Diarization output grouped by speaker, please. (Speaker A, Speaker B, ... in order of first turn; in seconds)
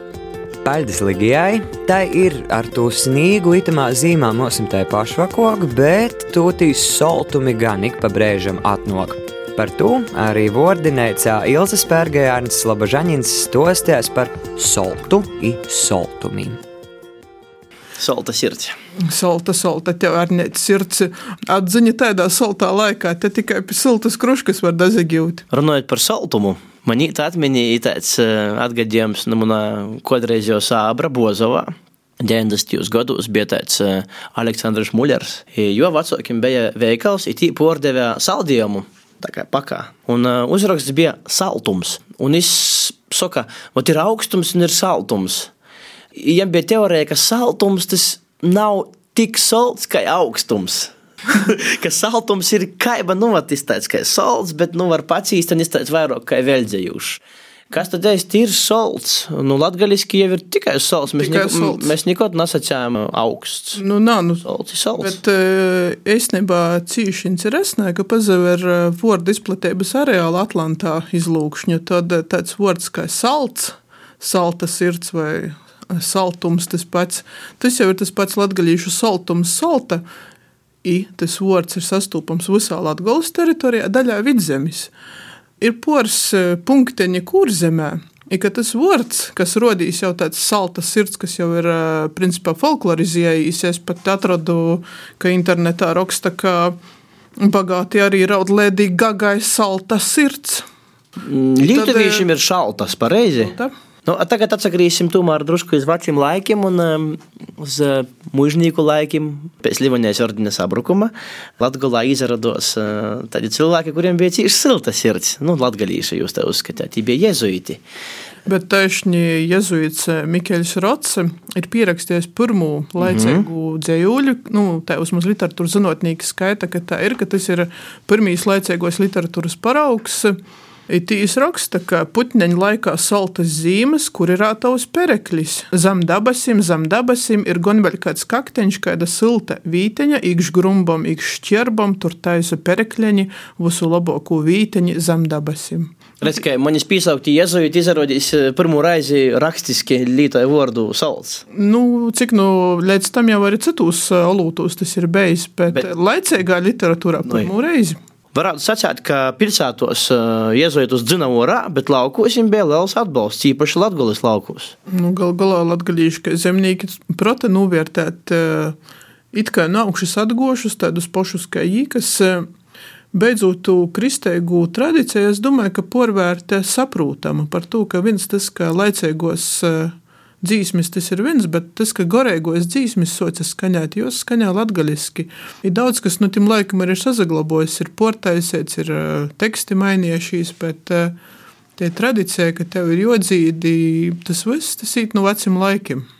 Speaker A: 0.6-16.6
Speaker B: 18.0-18.7, 25.5-45.5, 46.1-57.2, 57.7-63.8, 64.4-65.2, 101.2-103.5, 104.0-117.8, 123.0-123.4, 146.2-151.4, 158.3-164.7
Speaker C: 19.0-25.4, 61.2-61.9, 63.8-64.4, 65.0-80.0, 80.8-84.9, 85.6-96.8, 97.4-100.6, 101.7-102.3, 103.3-103.7, 118.5-130.3, 130.9-146.0, 151.5-158.0, 164.9-168.8, 169.3-172.4, 173.1-191.2, 191.8-196.0